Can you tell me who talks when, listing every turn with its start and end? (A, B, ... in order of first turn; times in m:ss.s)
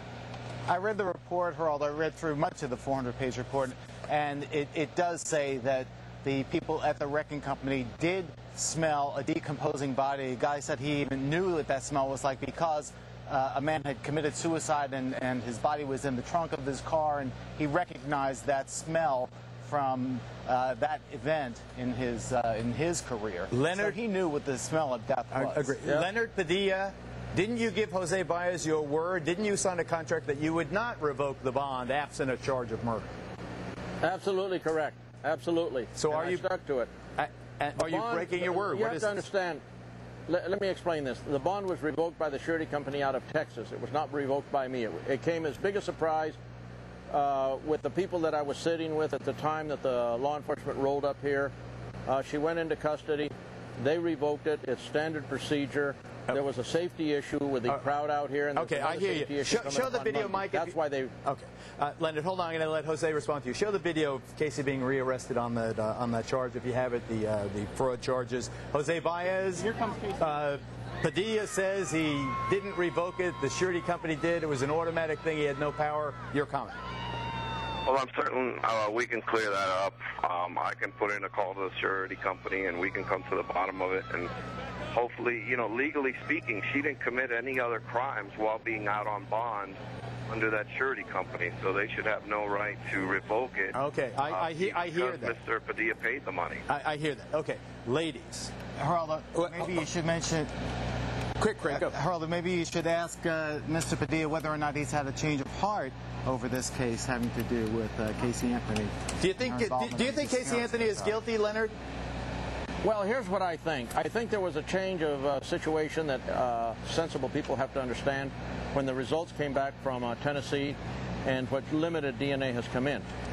0:00.7-0:25.8 A
0:23.5-0:24.0 B
0:25.3-0:33.1 B
0:34.0-0:36.9 C
0:36.0-0:36.4 B
0:37.2-0:39.2 B
0:37.8-0:39.6 C
0:40.3-0:46.4 C
0:47.1-0:51.5 C
0:52.1-1:01.1 C
0:58.6-1:16.8 B
1:17.9-1:24.3 D
1:24.9-1:29.8 D
1:30.3-1:33.8 D
1:33.7-1:35.4 B
1:34.3-1:36.6 D
1:36.7-1:38.5 B
1:38.8-1:40.5 A
1:39.3-1:39.8 B
1:41.4-1:41.9 B
1:41.6-1:51.2 A
1:49.2-1:51.7 B
1:52.8-2:03.1 C